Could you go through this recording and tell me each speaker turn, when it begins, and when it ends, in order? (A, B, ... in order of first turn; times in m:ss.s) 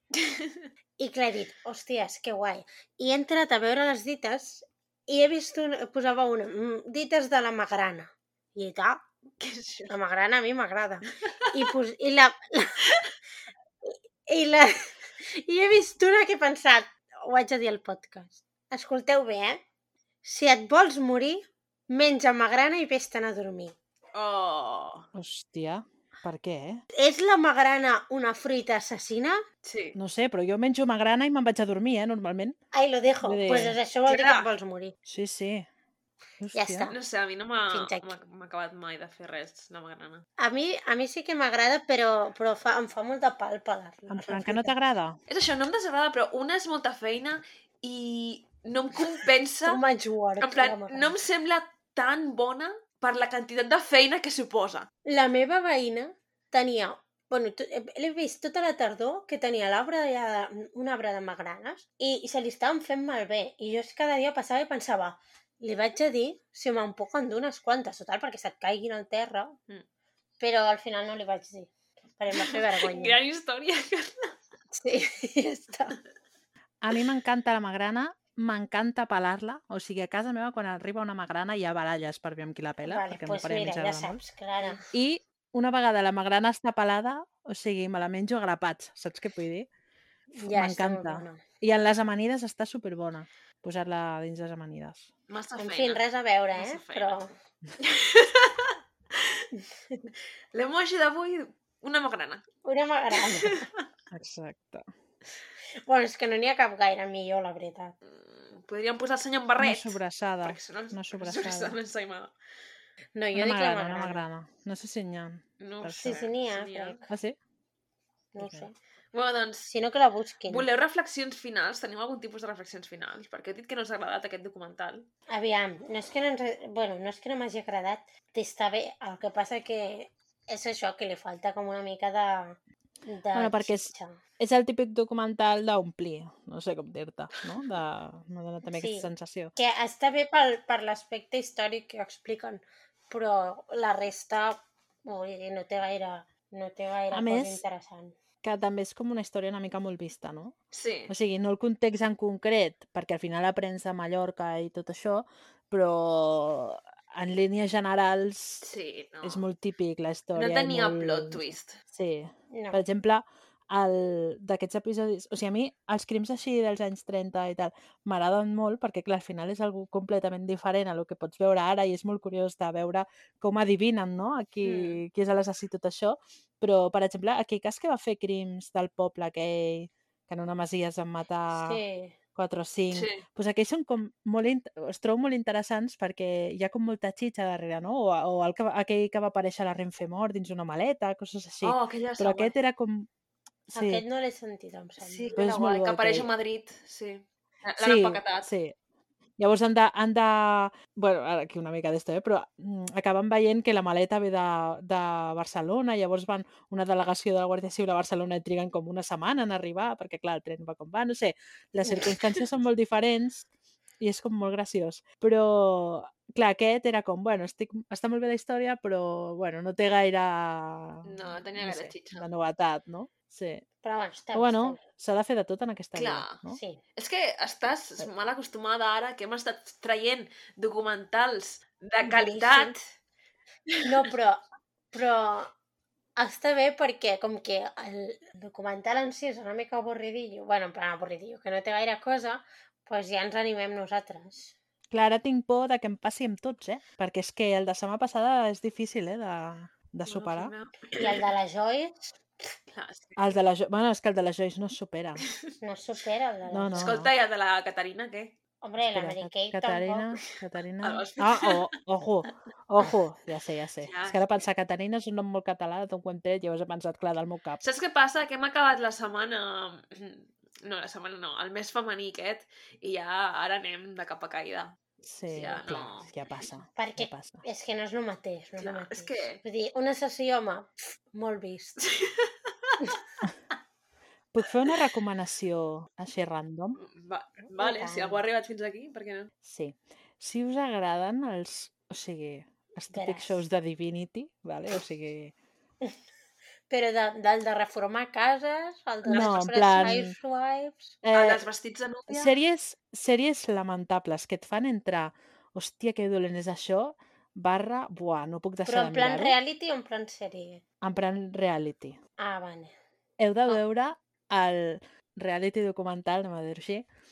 0:00.2-0:00.7 A
0:01.0-0:09.0 B
0:09.4-0:09.9 A
0:09.9-0:12.9 B
0:11.2-0:11.7 A
0:12.9-0:13.1 A
0:13.8-0:19.6 B
0:20.2-0:23.7 B
0:24.1-0:25.1 A
0:25.1-0:26.8 C
0:26.9-0:29.4 B
0:29.6-0:30.0 A
0:29.9-0:32.6 C
0:32.7-0:35.0 B
0:33.2-0:33.8 C
0:34.1-0:34.5 A
0:35.0-0:35.7 C
0:36.4-0:36.9 C
0:36.5-0:37.0 B
0:36.9-0:40.2 A
0:37.7-0:38.1 B
0:40.4-0:44.7 B
0:44.1-0:45.2 C
0:45.3-0:49.8 A
0:49.6-0:51.1 B
0:50.4-0:54.9 A
0:55.0-1:09.6 B
1:10.4-1:13.2 B
1:12.3-1:14.3 A
1:14.7-1:16.0 B
1:16.8-1:24.2 C
1:22.8-1:24.8 B
1:24.9-1:29.7 C
1:30.3-1:31.4 B
1:30.4-1:35.1 C
1:35.3-1:36.0 A
1:35.6-1:37.3 B
1:36.5-1:37.2 A
1:37.8-1:39.5 A
1:39.5-1:40.1 B
1:40.5-1:42.4 A
1:42.6-1:43.7 B
1:43.1-1:43.8 A
1:44.1-1:44.9 C
1:45.8-1:47.9 B
1:48.0-1:52.3 A
1:49.6-1:51.8 C
1:53.1-1:54.2 B
1:53.3-1:56.2 C
1:55.6-1:57.0 A
1:56.0-1:57.1 B
1:57.1-1:57.4 C
1:58.3-1:58.7 B
1:58.4-1:58.7 C
1:59.1-1:59.7 A
1:59.7-2:00.7 B
2:00.5-2:05.1 A
2:05.3-2:14.2 B
2:13.3-2:19.5 C
2:18.7-2:28.2 B
2:27.1-2:27.6 C
2:28.4-2:30.5 C
2:30.7-2:31.1 A
2:31.1-2:38.6 C
2:38.6-2:39.4 A
2:39.2-3:01.8 C
2:40.3-2:41.8 A
2:42.5-2:42.8 B
2:54.6-2:55.0 B
3:01.5-3:02.2 B
3:02.4-3:13.1 C
3:02.9-3:03.2 A
3:11.6-3:12.5 A
3:13.7-3:14.0 C
3:13.7-3:15.4 B
3:15.0-3:18.5 A
3:15.4-3:16.3 C
3:17.8-3:18.7 C
3:19.4-3:33.5 C
3:34.0-3:43.6 C
3:41.0-3:42.3 A
3:43.8-3:44.8 B
3:44.3-3:46.6 C
3:46.0-3:46.4 A
3:46.5-3:46.8 B
3:47.0-3:52.8 A
3:52.0-3:52.7 B
3:53.7-3:54.0 A
3:53.8-3:55.5 B
3:56.2-4:04.6 B
4:04.9-4:10.5 C
4:10.0-4:11.3 A
4:10.9-4:12.0 B
4:12.7-4:13.3 A
4:13.2-4:15.2 C
4:15.6-4:16.9 B
4:16.5-4:17.1 C
4:16.8-4:18.4 A
4:18.6-4:20.2 B
4:18.9-4:27.6 C
4:20.8-4:21.6 A
4:23.8-4:24.2 A
4:27.6-4:34.8 A
4:35.0-4:37.4 C
4:35.3-4:36.1 A
4:36.8-4:41.8 B
4:38.6-4:39.4 A
4:41.8-4:43.0 A
4:44.3-4:46.8 C
4:46.8-4:49.3 A
4:47.6-4:48.2 B
4:49.4-4:55.3 C
4:52.9-4:53.4 B
4:56.7-5:01.0 B
4:59.0-4:59.4 A
4:59.1-5:00.2 C
5:01.0-5:01.4 C
5:01.1-5:02.3 A
5:02.1-5:09.4 C
5:08.6-5:10.6 B
5:10.8-5:12.0 C
5:12.2-5:12.7 B
5:13.2-5:16.9 C